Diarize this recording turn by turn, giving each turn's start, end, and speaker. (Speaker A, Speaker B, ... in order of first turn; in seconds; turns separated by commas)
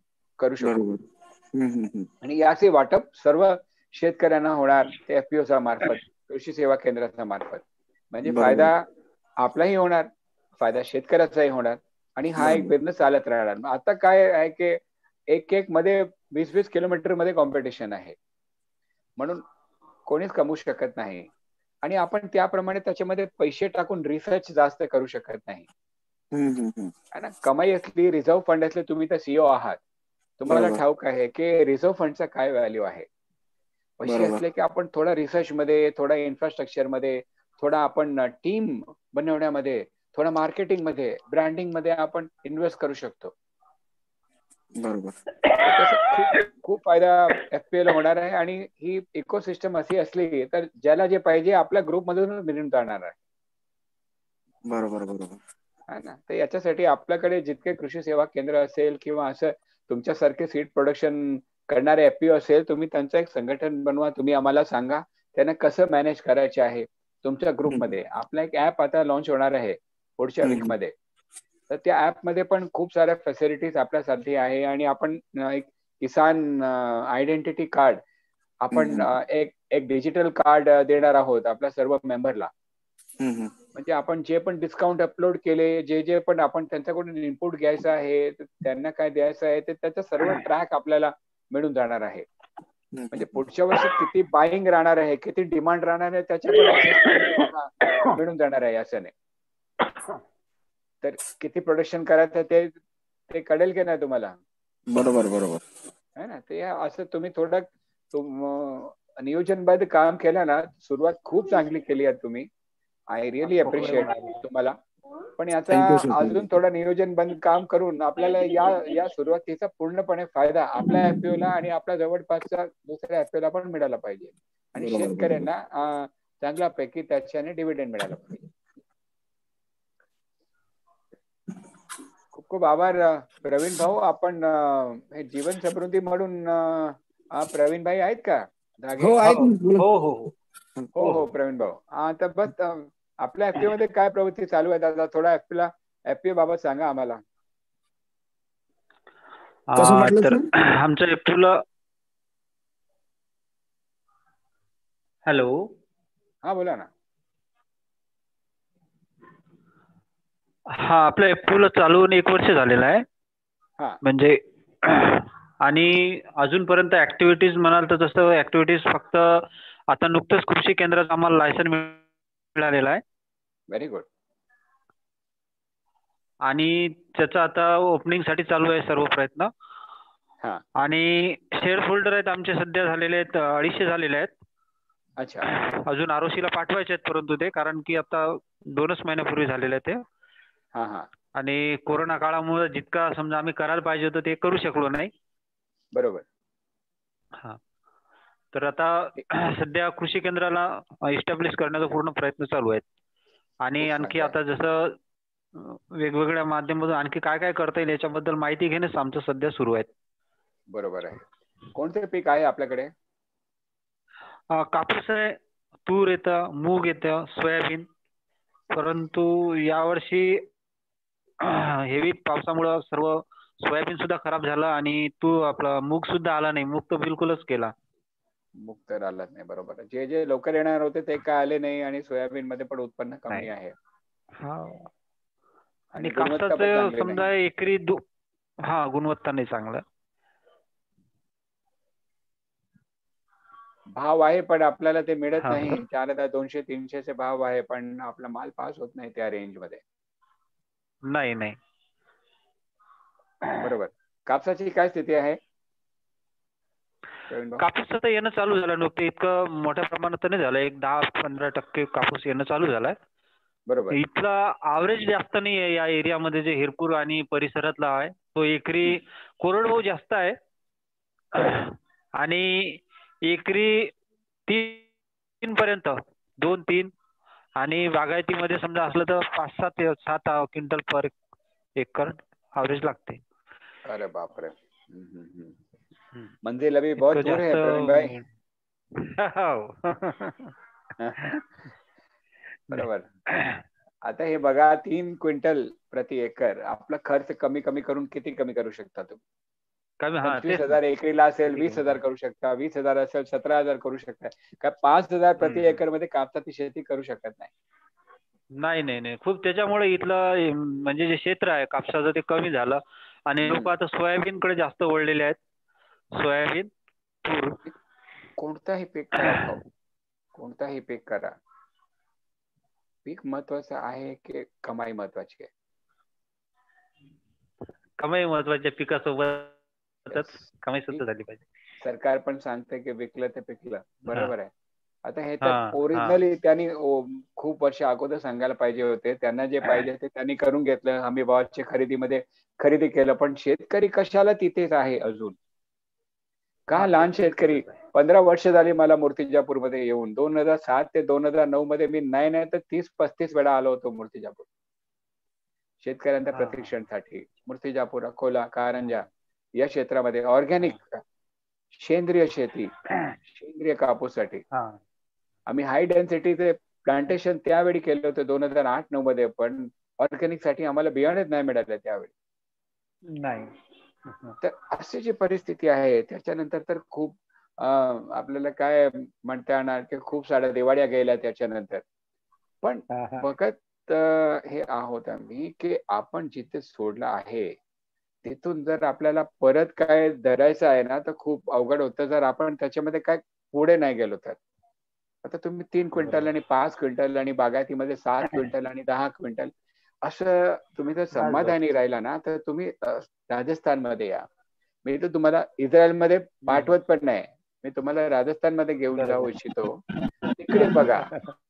Speaker A: 0.4-0.8, Speaker B: 0.6-2.1, Speaker A: 2.2-8.8, Speaker B: 8.2-8.7, Speaker A: 9.4-18.2, Speaker B: 12.4-12.7, Speaker A: 19.2-19.4, Speaker A: 20.1-21.3, Speaker A: 21.8-25.7, Speaker B: 26.3-26.9, Speaker A: 27.1-29.8, Speaker A: 30.4-33.1, Speaker B: 30.5-30.8, Speaker A: 34.0-43.3, Speaker B: 34.1-34.4, Speaker B: 44.8-45.2, Speaker A: 45.6-53.2, Speaker B: 54.7-55.4, Speaker A: 55.9-70.9, Speaker B: 70.4-70.7, Speaker A: 71.7-78.0, Speaker A: 78.6-82.5, Speaker B: 78.7-79.1, Speaker B: 83.2-83.5, Speaker A: 83.8-92.3, Speaker B: 92.9-93.2, Speaker A: 93.1-99.1, Speaker A: 101.0-102.8, Speaker A: 103.3-104.4, Speaker B: 104.9-105.6, Speaker A: 106.2-112.5, Speaker A: 113.1-114.8, Speaker C: 113.6-114.1, Speaker A: 115.4-128.4, Speaker B: 115.7-116.5, Speaker B: 124.8-125.5, Speaker A: 132.3-139.4, Speaker B: 139.0-139.9, Speaker C: 139.3-140.3, Speaker A: 140.9-147.2, Speaker C: 149.7-151.6, Speaker B: 149.8-150.4, Speaker C: 155.3-155.7, Speaker A: 156.4-156.9, Speaker C: 160.7-163.1, Speaker C: 164.0-172.0, Speaker C: 172.6-173.0, Speaker A: 173.7-174.1, Speaker C: 176.5-179.5, Speaker C: 180.8-184.3, Speaker A: 185.2-185.5, Speaker C: 185.4-190.0, Speaker A: 190.7-191.1, Speaker C: 191.4-195.1, Speaker A: 195.9-196.2, Speaker C: 198.5-202.8, Speaker C: 203.6-205.0, Speaker A: 203.8-204.4, Speaker C: 205.6-209.9, Speaker A: 210.7-211.2, Speaker A: 211.8-212.9, Speaker C: 214.5-217.9, Speaker C: 218.7-220.5, Speaker C: 221.4-227.7, Speaker A: 228.6-233.8, Speaker C: 234.4-234.9, Speaker A: 235.9-237.3, Speaker C: 236.0-238.0, Speaker C: 238.6-239.8, Speaker A: 244.0-249.8, Speaker C: 245.4-245.8, Speaker C: 251.1-251.6, Speaker A: 253.6-255.4, Speaker A: 257.3-257.6, Speaker C: 257.6-263.0, Speaker A: 263.7-264.0, Speaker C: 263.9-270.4, Speaker C: 271.3-273.9, Speaker C: 274.5-274.9, Speaker C: 275.4-276.9, Speaker C: 277.6-281.1, Speaker C: 281.8-283.2, Speaker A: 283.9-285.6, Speaker A: 286.4-288.2, Speaker C: 287.0-288.3, Speaker C: 289.0-290.5, Speaker A: 291.0-291.3, Speaker A: 292.7-293.1, Speaker C: 292.7-293.6, Speaker A: 294.1-299.2, Speaker C: 300.0-300.8, Speaker A: 300.2-307.5, Speaker C: 301.5-301.9, Speaker C: 305.4-305.8, Speaker C: 308.6-315.4, Speaker A: 313.4-313.7, Speaker C: 316.1-316.7, Speaker C: 317.2-317.6, Speaker A: 318.4-319.6, Speaker A: 320.4-321.3, Speaker A: 323.1-325.5, Speaker C: 328.0-329.6, Speaker C: 330.1-331.4, Speaker A: 330.1-330.4, Speaker A: 331.8-334.5, Speaker A: 335.1-345.4, Speaker C: 335.4-336.2, Speaker A: 346.7-354.5, Speaker C: 346.8-347.8, Speaker A: 355.8-359.1, Speaker C: 356.3-356.7, Speaker A: 359.6-361.0, Speaker A: 361.8-364.4, Speaker C: 364.5-364.8, Speaker A: 365.5-372.1, Speaker C: 373.1-373.5, Speaker C: 374.1-374.4, Speaker A: 374.4-381.8, Speaker A: 382.6-387.6, Speaker C: 382.9-383.3, Speaker A: 388.2-394.4, Speaker A: 395.2-399.5, Speaker C: 396.0-396.3, Speaker A: 400.0-404.2, Speaker C: 401.1-401.6, Speaker A: 404.9-409.8, Speaker C: 409.0-409.3, Speaker A: 410.4-411.1, Speaker C: 410.6-411.3